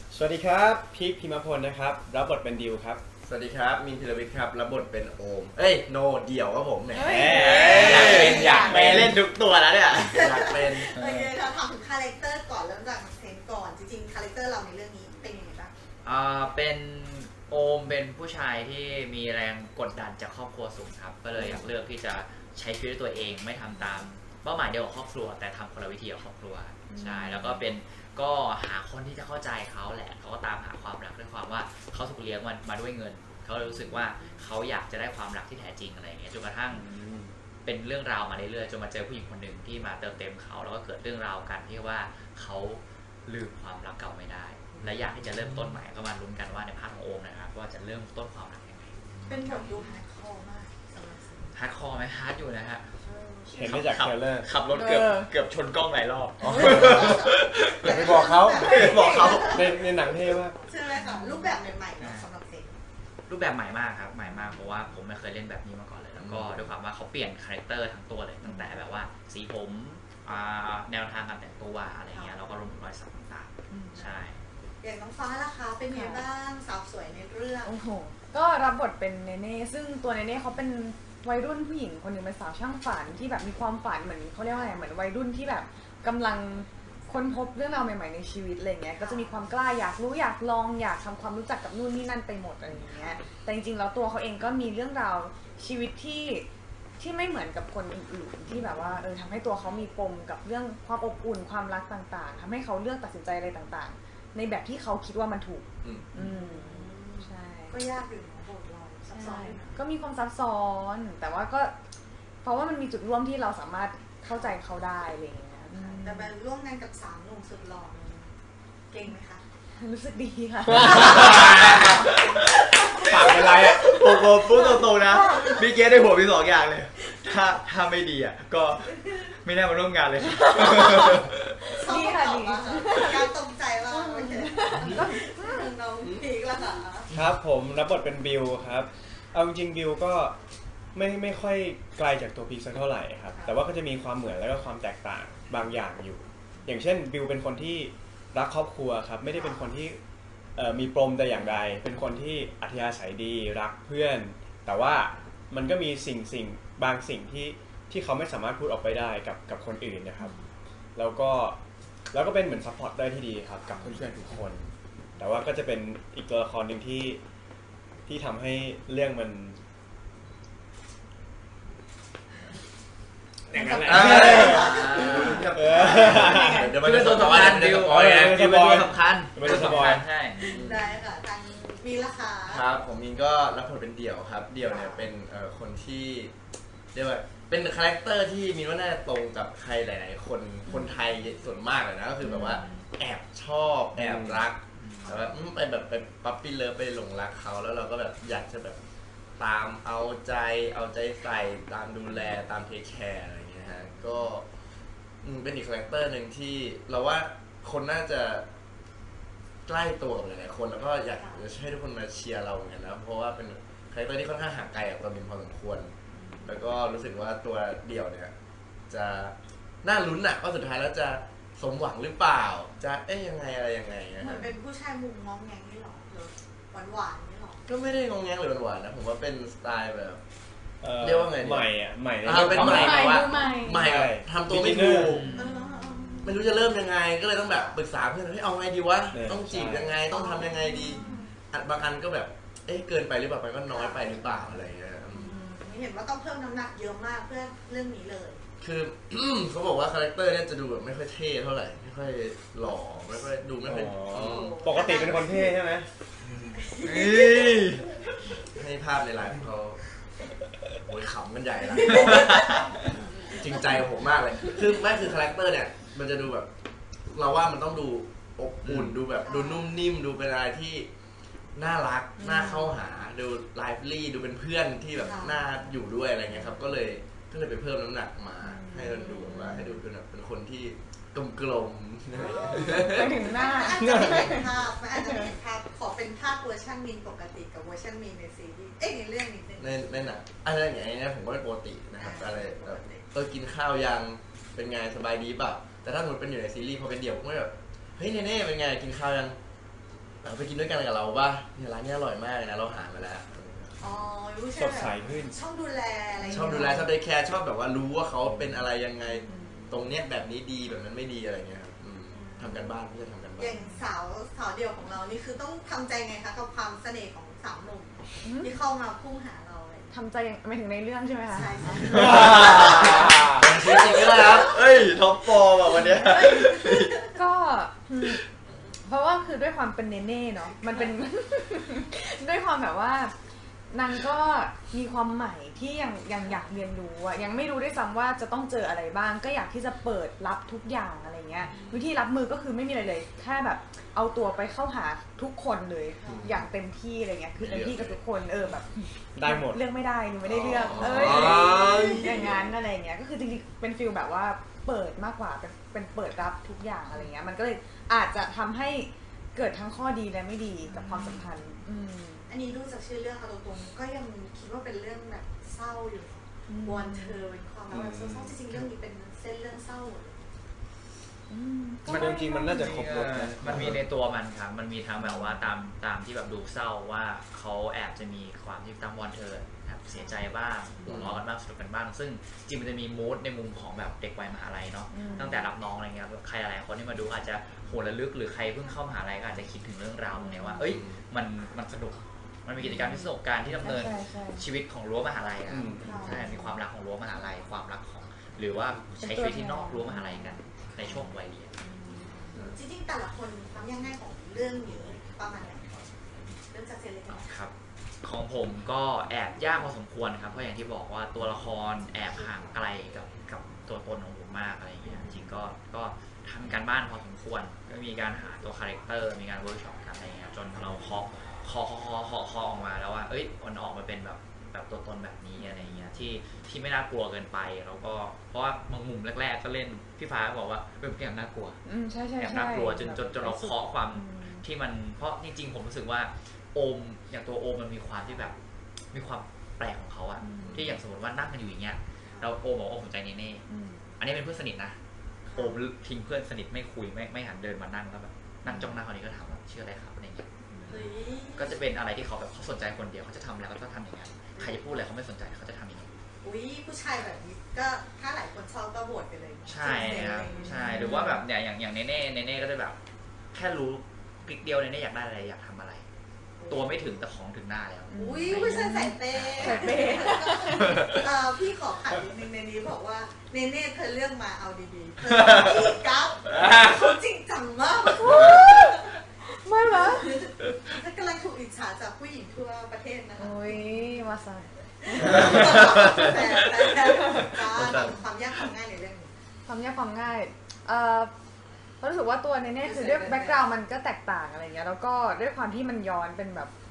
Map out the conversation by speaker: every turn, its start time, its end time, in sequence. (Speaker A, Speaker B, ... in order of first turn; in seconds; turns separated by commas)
Speaker A: 0.1-3.0, Speaker B: 3.2-9.1, Speaker C: 6.9-8.8, Speaker A: 7.0-9.1, Speaker D: 7.2-10.3, Speaker E: 8.1-8.7, Speaker E: 10.0-15.7, Speaker B: 10.1-11.0, Speaker D: 10.9-11.3, Speaker D: 16.0-36.8, Speaker C: 26.9-27.6, Speaker C: 36.7-37.0, Speaker A: 36.8-37.3, Speaker D: 37.6-49.9, Speaker E: 49.3-51.5, Speaker D: 51.5-52.8, Speaker E: 53.0-53.7, Speaker A: 53.5-54.5, Speaker D: 53.5-57.9, Speaker C: 54.7-55.3, Speaker A: 56.4-57.2, Speaker E: 56.8-62.8, Speaker A: 57.8-60.5, Speaker D: 58.6-59.5, Speaker C: 58.8-59.4, Speaker D: 62.0-62.2, Speaker D: 63.3-74.4, Speaker B: 66.2-66.7, Speaker C: 68.4-68.8, Speaker E: 72.1-72.8, Speaker C: 73.7-74.0, Speaker E: 73.9-74.2, Speaker E: 74.8-77.7, Speaker C: 75.9-76.2, Speaker C: 77.6-107.8, Speaker E: 84.5-84.8, Speaker E: 89.0-89.5, Speaker E: 92.7-93.3, Speaker B: 105.8-106.1, Speaker E: 106.1-109.7, Speaker C: 109.1-111.7, Speaker C: 112.4-116.3, Speaker E: 114.3-114.6, Speaker E: 115.7-118.3, Speaker E: 118.9-119.4, Speaker C: 119.8-121.5, Speaker D: 120.8-123.0, Speaker E: 121.0-121.6, Speaker E: 122.8-124.0, Speaker A: 123.0-123.8, Speaker D: 123.8-131.6, Speaker C: 124.5-125.6, Speaker E: 131.7-137.1, Speaker C: 131.8-133.3, Speaker C: 133.9-135.7, Speaker A: 137.1-140.3, Speaker A: 140.9-150.0, Speaker E: 143.3-143.6, Speaker A: 150.6-160.3, Speaker A: 160.9-161.6, Speaker A: 162.1-167.2, Speaker A: 168.1-169.6, Speaker A: 173.5-180.1, Speaker B: 173.8-178.3, Speaker D: 174.0-175.4, Speaker E: 174.4-175.1, Speaker D: 176.6-180.4, Speaker C: 180.3-180.8, Speaker B: 180.5-180.9, Speaker E: 180.5-182.7, Speaker B: 182.5-186.3, Speaker E: 184.7-185.1, Speaker B: 186.9-198.8, Speaker C: 190.7-190.9, Speaker C: 192.2-192.7, Speaker A: 193.9-194.4, Speaker D: 194.8-195.3, Speaker B: 199.4-204.4, Speaker E: 203.6-204.3, Speaker B: 205.2-208.5, Speaker B: 209.7-215.9, Speaker E: 211.1-211.5, Speaker E: 216.1-216.8, Speaker B: 216.4-218.3, Speaker B: 218.9-224.5, Speaker E: 224.2-227.6, Speaker C: 224.2-224.5, Speaker B: 227.7-230.2, Speaker A: 230.8-235.2, Speaker B: 231.0-235.3, Speaker D: 232.4-232.9, Speaker C: 232.5-233.9, Speaker D: 235.1-235.5, Speaker E: 235.3-237.8, Speaker C: 235.3-236.4, Speaker B: 236.2-245.3, Speaker A: 239.1-240.0, Speaker E: 240.1-241.3, Speaker C: 240.8-241.3, Speaker E: 243.7-244.4, Speaker E: 245.1-248.4, Speaker B: 248.6-254.5, Speaker A: 253.6-255.9, Speaker E: 254.2-255.5, Speaker E: 256.5-257.8, Speaker D: 256.8-257.9, Speaker B: 258.5-259.8, Speaker B: 260.8-262.4, Speaker E: 261.6-263.7, Speaker B: 263.3-266.5, Speaker E: 264.4-264.9, Speaker B: 267.1-270.9, Speaker D: 268.6-269.0, Speaker E: 269.1-269.9, Speaker B: 271.5-283.3, Speaker C: 272.2-272.7, Speaker E: 274.9-275.4, Speaker C: 278.4-279.7, Speaker E: 282.1-290.1, Speaker C: 282.6-285.3, Speaker B: 289.6-299.4, Speaker E: 292.0-293.1, Speaker B: 300.2-303.9, Speaker E: 303.8-306.4, Speaker A: 304.5-305.3, Speaker C: 306.2-306.9, Speaker B: 306.3-313.6, Speaker C: 309.3-309.8, Speaker E: 312.1-312.8, Speaker E: 313.4-319.9, Speaker C: 313.6-313.8, Speaker C: 318.2-318.5, Speaker C: 319.9-322.0, Speaker E: 321.3-323.1, Speaker B: 321.7-322.4, Speaker D: 321.9-326.9, Speaker B: 323.3-324.5, Speaker E: 323.7-324.6, Speaker E: 325.7-327.1, Speaker C: 327.1-328.2, Speaker C: 328.8-333.1, Speaker C: 333.7-362.3, Speaker E: 346.0-346.3, Speaker B: 346.0-346.4, Speaker B: 347.4-348.0, Speaker A: 349.1-349.6, Speaker B: 350.2-352.2, Speaker E: 351.0-352.4, Speaker B: 360.7-361.1, Speaker E: 362.3-370.3, Speaker C: 366.5-367.2, Speaker C: 371.3-372.8, Speaker A: 371.8-373.8, Speaker D: 371.9-401.5, Speaker C: 375.0-375.5, Speaker E: 379.9-380.2, Speaker B: 380.8-381.2, Speaker C: 384.9-385.5, Speaker C: 390.1-390.7, Speaker B: 390.7-391.0, Speaker C: 392.6-394.4, Speaker A: 395.5-396.0, Speaker E: 395.8-396.2, Speaker C: 396.0-396.5, Speaker C: 399.0-401.1, Speaker E: 401.6-405.7, Speaker E: 406.4-407.4, Speaker D: 407.1-431.6, Speaker E: 412.2-412.5, Speaker C: 425.4-425.9, Speaker C: 431.6-434.4, Speaker D: 432.2-438.3, Speaker E: 438.0-438.3, Speaker D: 438.9-443.4, Speaker C: 440.2-440.7, Speaker B: 440.4-440.8, Speaker C: 443.5-443.9, Speaker D: 444.0-444.8, Speaker E: 445.2-445.6, Speaker D: 445.3-450.3, Speaker C: 448.5-448.8, Speaker E: 450.6-451.6, Speaker D: 451.3-455.9, Speaker E: 454.4-454.6, Speaker E: 456.2-460.6, Speaker D: 459.5-462.8, Speaker C: 460.3-461.2, Speaker D: 463.3-465.8, Speaker E: 466.4-467.0, Speaker D: 466.5-470.0, Speaker C: 467.9-470.9, Speaker E: 467.9-478.9, Speaker C: 478.0-478.8, Speaker C: 479.4-480.2, Speaker E: 479.6-483.6, Speaker C: 483.2-485.2, Speaker E: 484.8-489.1, Speaker D: 485.2-486.2, Speaker C: 486.9-487.3, Speaker C: 489.4-491.1, Speaker C: 491.8-496.5, Speaker E: 492.6-493.4